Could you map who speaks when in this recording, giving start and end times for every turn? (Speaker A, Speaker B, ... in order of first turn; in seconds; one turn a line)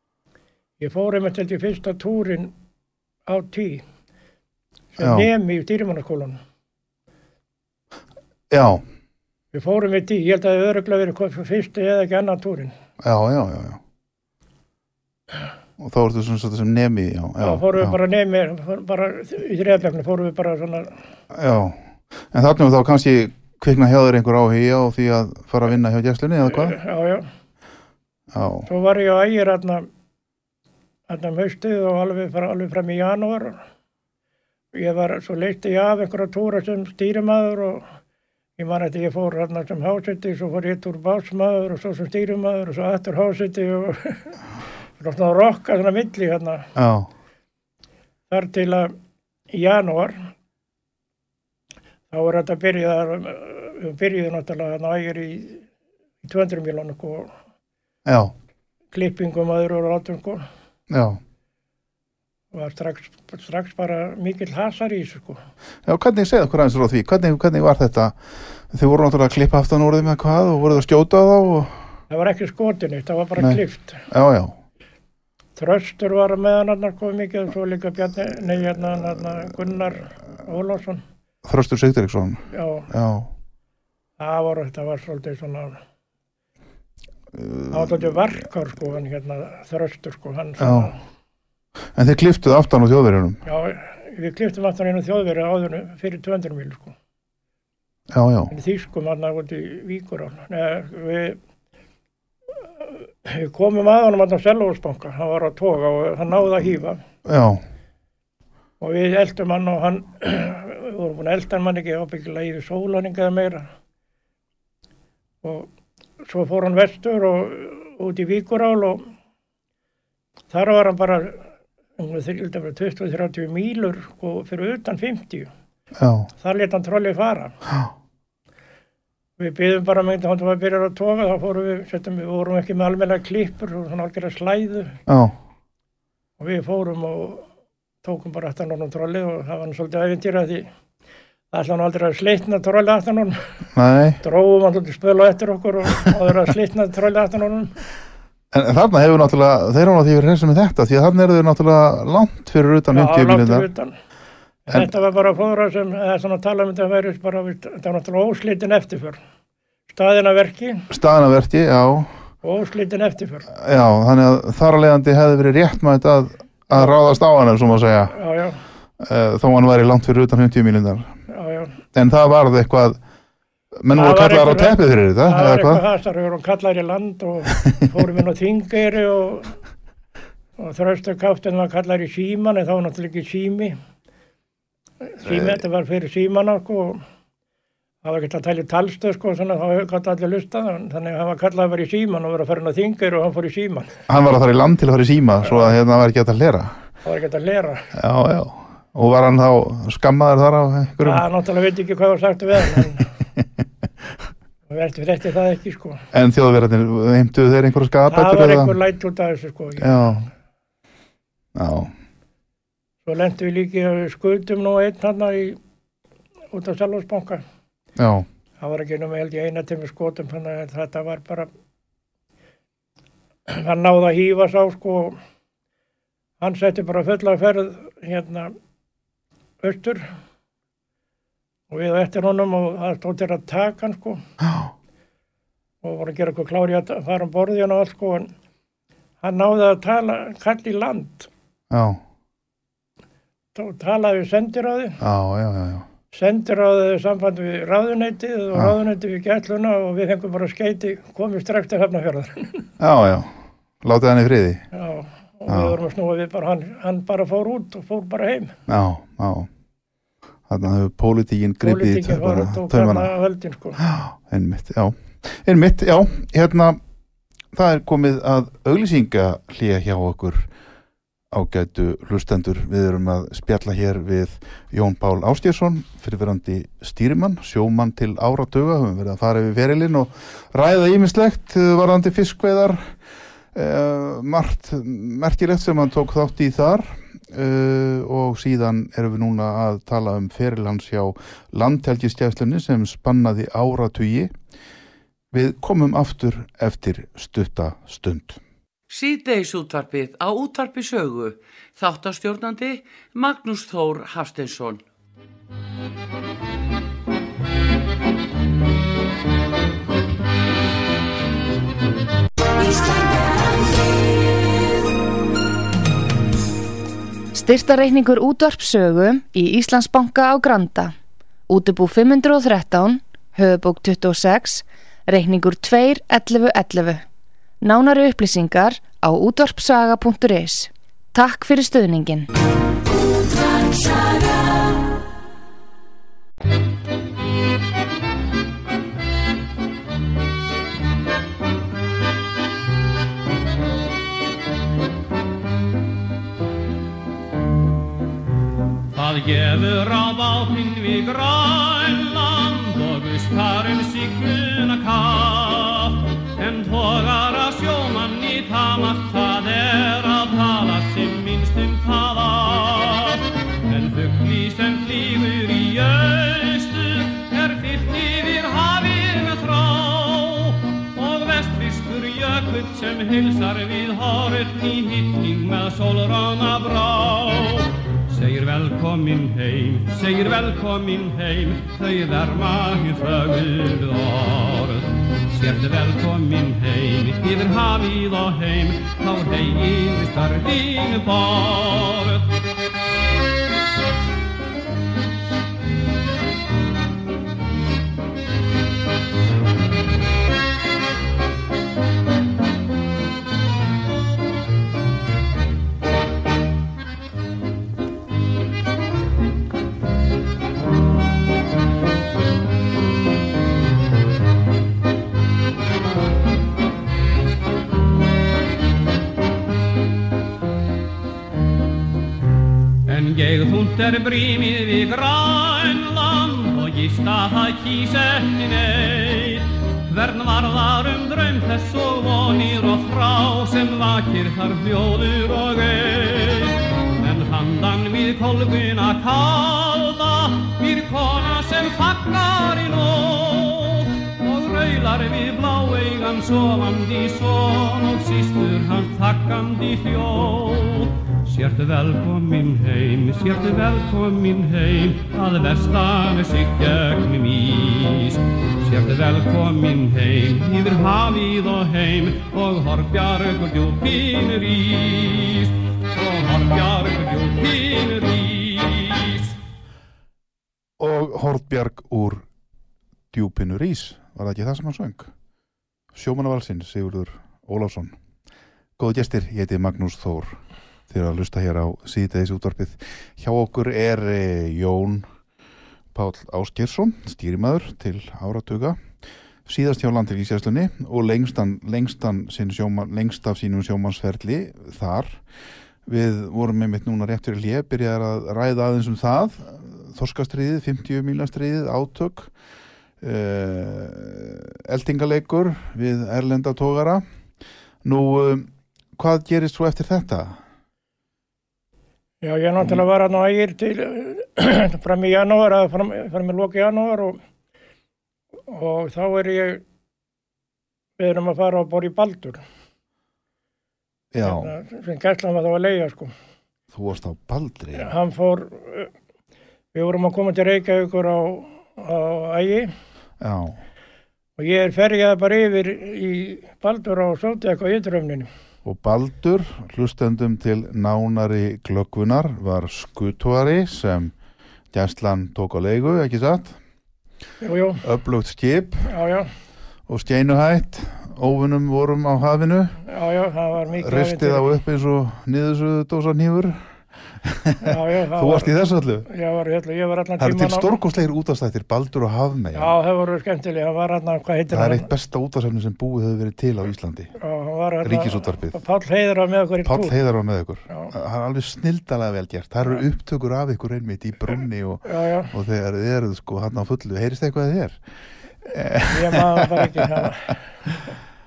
Speaker A: 0.8-2.5
Speaker A: 3.3-3.8
Speaker A: 4.9-6.4
Speaker B: 5.0-5.3
Speaker B: 8.5-8.8
Speaker A: 9.5-12.7
Speaker B: 13.0-13.8
Speaker B: 15.8-18.0
Speaker A: 17.4-20.9
Speaker B: 21.3-26.8
Speaker A: 26.5-27.3
Speaker B: 28.3-28.7
Speaker A: 28.7-29.9
Speaker A: 31.1-33.6
Speaker A: 34.7-37.9
Speaker A: 38.6-44.4
Speaker A: 45.0-46.7
Speaker B: 46.8-47.1
Speaker A: 48.3-48.9
Speaker A: 49.5-50.3
Speaker A: 52.1-55.6
Speaker A: 56.2-57.3
Speaker B: 58.0-58.3
Speaker A: 58.9-60.5
Speaker B: 60.9-61.2
Speaker A: 62.5-65.4
Speaker B: 65.8-68.2
Speaker B: 68.7-71.8
Speaker A: 72.1-74.0
Speaker B: 73.4-74.5
Speaker A: 75.6-81.0
Speaker B: 81.4-83.3
Speaker A: 82.5-82.9
Speaker A: 84.2-85.8
Speaker B: 87.3-88.2
Speaker A: 87.7-91.0
Speaker B: 90.6-90.9
Speaker B: 91.9-93.4
Speaker A: 93.5-96.9
Speaker B: 98.1-98.5
Speaker A: 98.5-101.4
Speaker A: 102.8-107.0
Speaker B: 107.2-107.6
Speaker A: 108.8-113.7
Speaker A: 115.4-115.7
Speaker A: 116.2-119.0
Speaker A: 120.5-121.5
Speaker A: 122.0-125.5
Speaker B: 126.0-126.3
Speaker A: 126.4-127.5
Speaker A: 129.4-135.0
Speaker B: 135.1-135.3
Speaker A: 136.4-137.5
Speaker A: 138.0-140.7
Speaker A: 141.5-143.5
Speaker B: 143.7-144.2
Speaker A: 144.2-147.7
Speaker B: 148.5-153.7
Speaker A: 152.9-153.9
Speaker A: 154.7-159.2
Speaker A: 159.9-160.9
Speaker B: 160.9-162.1
Speaker A: 162.4-163.5
Speaker B: 163.5-168.2
Speaker A: 168.1-168.6
Speaker B: 169.0-171.1
Speaker A: 171.3-171.8
Speaker B: 171.9-173.0
Speaker B: 173.8-175.8
Speaker A: 173.9-179.6
Speaker A: 180.6-183.8
Speaker A: 185.0-187.0
Speaker B: 185.2-185.6
Speaker A: 188.0-194.0
Speaker B: 194.1-196.8
Speaker A: 195.5-195.7
Speaker A: 197.0-197.9
Speaker B: 197.9-201.2
Speaker A: 201.0-203.1
Speaker A: 204.7-206.0
Speaker B: 206.1-208.8
Speaker A: 208.1-210.1
Speaker B: 209.8-210.3
Speaker B: 211.5-211.9
Speaker A: 213.1-215.6
Speaker A: 216.5-217.4
Speaker B: 217.9-218.2
Speaker A: 218.6-221.5
Speaker A: 223.5-225.2
Speaker A: 226.4-228.5
Speaker A: 229.6-230.1
Speaker A: 231.7-234.2
Speaker B: 234.4-234.7
Speaker A: 235.8-238.3
Speaker A: 239.2-241.3
Speaker B: 241.7-242.0
Speaker A: 243.5-245.0
Speaker B: 245.0-245.8
Speaker A: 246.1-252.7
Speaker B: 252.8-254.6
Speaker A: 254.7-258.6
Speaker B: 255.5-255.8
Speaker B: 258.7-259.5
Speaker B: 260.5-263.1
Speaker A: 261.6-263.8
Speaker B: 263.8-266.8
Speaker B: 267.5-270.5
Speaker B: 271.3-282.9
Speaker B: 283.5-294.3
Speaker B: 295.3-298.4
Speaker C: 298.9-304.8
Speaker C: 312.6-314.3
Speaker D: 317.3-320.9
Speaker D: 321.5-327.0
Speaker D: 327.6-332.3
Speaker C: 333.1-334.6
Speaker E: 348.9-392.4
Speaker E: 422.9-469.4
Speaker B: 470.8-472.2
Speaker B: 473.1-475.1
Speaker B: 475.9-477.9
Speaker B: 478.8-485.1
Speaker B: 485.9-488.8
Speaker B: 489.4-495.2
Speaker B: 495.9-502.3
Speaker B: 503.0-507.0
Speaker B: 507.8-510.4
Speaker A: 512.2-517.2
Speaker A: 518.5-519.6
Speaker A: 521.0-522.4
Speaker B: 524.1-524.5
Speaker A: 524.2-526.1
Speaker B: 526.7-527.9
Speaker A: 527.7-528.9
Speaker A: 529.7-532.7
Speaker B: 533.2-533.6
Speaker A: 534.4-538.3
Speaker B: 538.6-544.1
Speaker B: 544.7-546.6
Speaker A: 547.4-547.8
Speaker B: 547.8-548.9
Speaker A: 548.8-549.3
Speaker B: 549.9-552.8
Speaker A: 552.9-554.5
Speaker B: 553.7-556.6
Speaker B: 557.2-559.1
Speaker A: 557.6-558.5
Speaker A: 559.1-560.7
Speaker B: 560.2-562.8
Speaker A: 562.5-564.9
Speaker B: 564.5-567.1
Speaker A: 567.2-570.0
Speaker B: 567.8-568.6
Speaker B: 569.6-577.8
Speaker A: 574.8-575.3
Speaker B: 578.4-580.1
Speaker A: 578.9-580.4